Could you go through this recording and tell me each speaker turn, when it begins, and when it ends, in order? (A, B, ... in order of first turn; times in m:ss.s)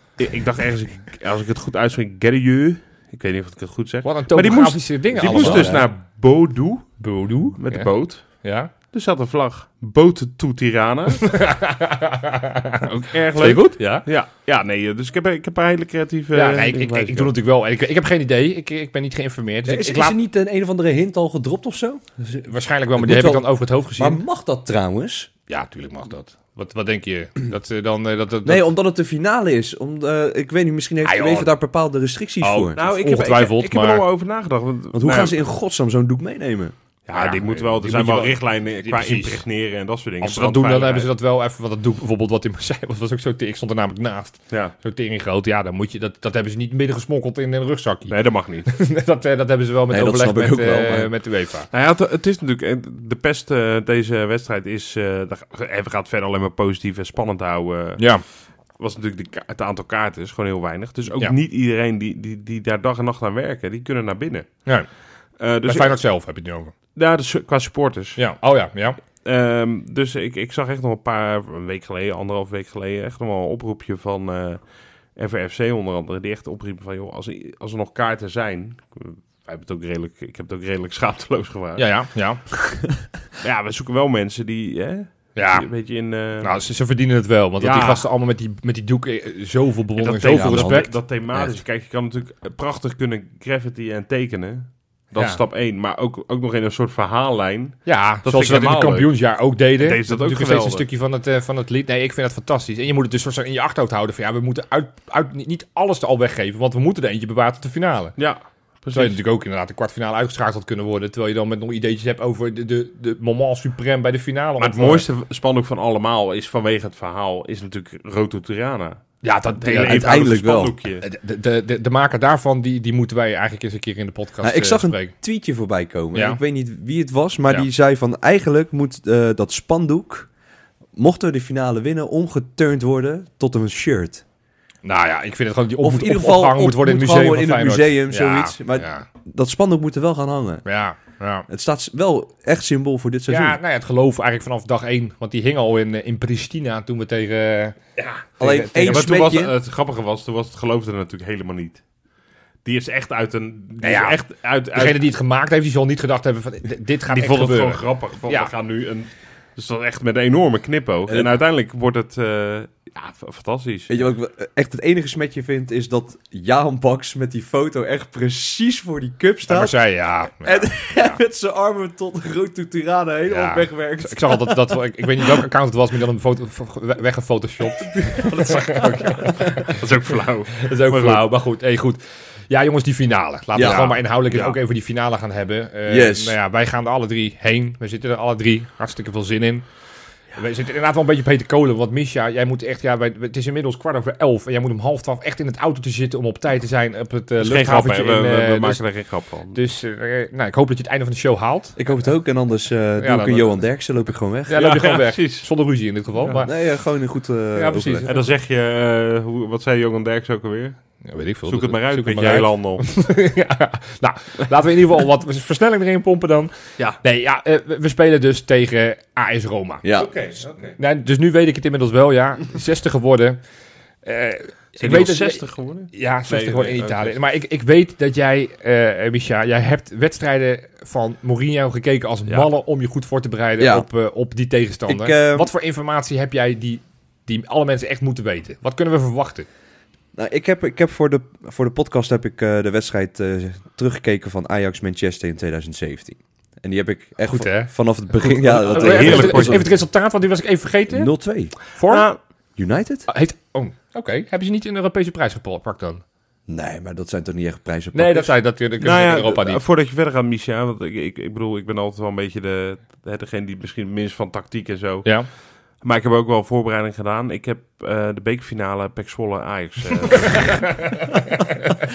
0:00.2-0:11.4 A
0:04.0-0:05.8 B
0:05.2-0:05.9 C
0:07.0-0:08.7 B
0:11.2-0:14.0 B
0:12.9-0:17.3 A
0:16.3-0:20.2 B
0:19.6-0:22.4 C
0:22.3-0:24.2 B
0:22.9-0:25.3 C
0:25.5-0:28.6 B
0:28.4-0:32.8 C
0:31.0-0:31.5 B
0:32.4-0:34.0 B
0:32.8-0:35.4 A
0:34.9-0:36.7 C
0:37.1-0:41.1 A
0:37.1-0:39.4 B
0:40.2-0:48.1 B
0:48.1-0:48.7 A
0:48.6-0:51.7 B
0:49.9-0:51.1 C
0:51.7-0:58.1 A
0:58.0-0:58.2 B
0:58.8-1:04.7 A
1:05.4-1:06.0 A
1:05.6-1:06.7 B
1:06.9-1:08.2 A
1:08.2-1:09.0 B
1:09.2-1:14.6 A
1:15.1-1:21.9 A
1:21.8-1:22.7 B
1:23.4-1:26.5 A
1:25.3-1:25.7 B
1:26.4-1:30.9 B
1:27.6-1:28.0 A
1:30.0-1:39.1 A
1:30.3-1:31.6 C
1:37.8-1:48.2 B
1:39.8-1:40.8 A
1:48.2-1:49.2 A
1:48.9-1:55.0 B
1:54.6-2:01.0 A
1:59.2-2:00.2 B
1:59.8-2:00.8 C
2:01.0-2:05.1 B
2:04.4-2:10.3 C
2:06.1-2:06.4 B
2:11.0-2:14.2 C
2:14.8-2:19.1 B
2:15.8-2:20.6 C
2:20.6-2:21.5 B
2:21.5-2:23.6 C
2:23.3-2:27.8 B
2:28.0-2:28.2 A
2:28.4-2:29.1 B
2:28.4-2:29.5 C
2:28.8-2:31.8 A
2:32.6-2:35.0 A
2:33.8-2:38.5 B
2:37.1-2:43.9 A
2:41.1-2:41.3 C
2:43.9-2:49.8 C
2:49.5-2:51.2 B
2:50.3-2:54.7 C
2:53.3-2:59.8 B
2:58.0-2:59.4 C
2:58.3-3:01.3 A
3:00.5-3:09.6 B
3:03.5-3:04.0 C
3:03.6-3:04.6 A
3:05.9-3:06.4 C
3:10.3-3:18.8 B
3:17.4-3:19.6 A
3:19.5-3:21.8 B
3:21.8-3:24.6 C
3:23.0-3:23.5 B
3:24.5-3:26.5 B
3:24.6-3:25.5 A
3:26.4-3:28.1 C
3:27.5-3:28.2 B
3:28.0-3:30.8 A
3:31.0-3:39.8 B
3:31.5-3:32.9 A
3:39.8-3:40.1 C
3:39.9-3:40.8 A
3:40.8-3:43.4 B
3:44.0-3:59.5 B
3:44.8-3:47.2 A
3:53.6-3:53.8 C
3:54.9-3:55.5 C
4:00.1-4:09.7 C
4:07.2-4:11.1 B
4:08.5-4:09.7 A
4:10.9-4:11.6 C
4:11.7-4:12.1 B
4:11.9-4:12.2 A
4:12.6-4:13.1 C
4:13.1-4:16.0 B
4:16.5-4:18.3 C
4:17.9-4:19.6 B
4:18.8-4:25.1 A
4:25.8-4:30.8 A
4:30.2-4:31.0 B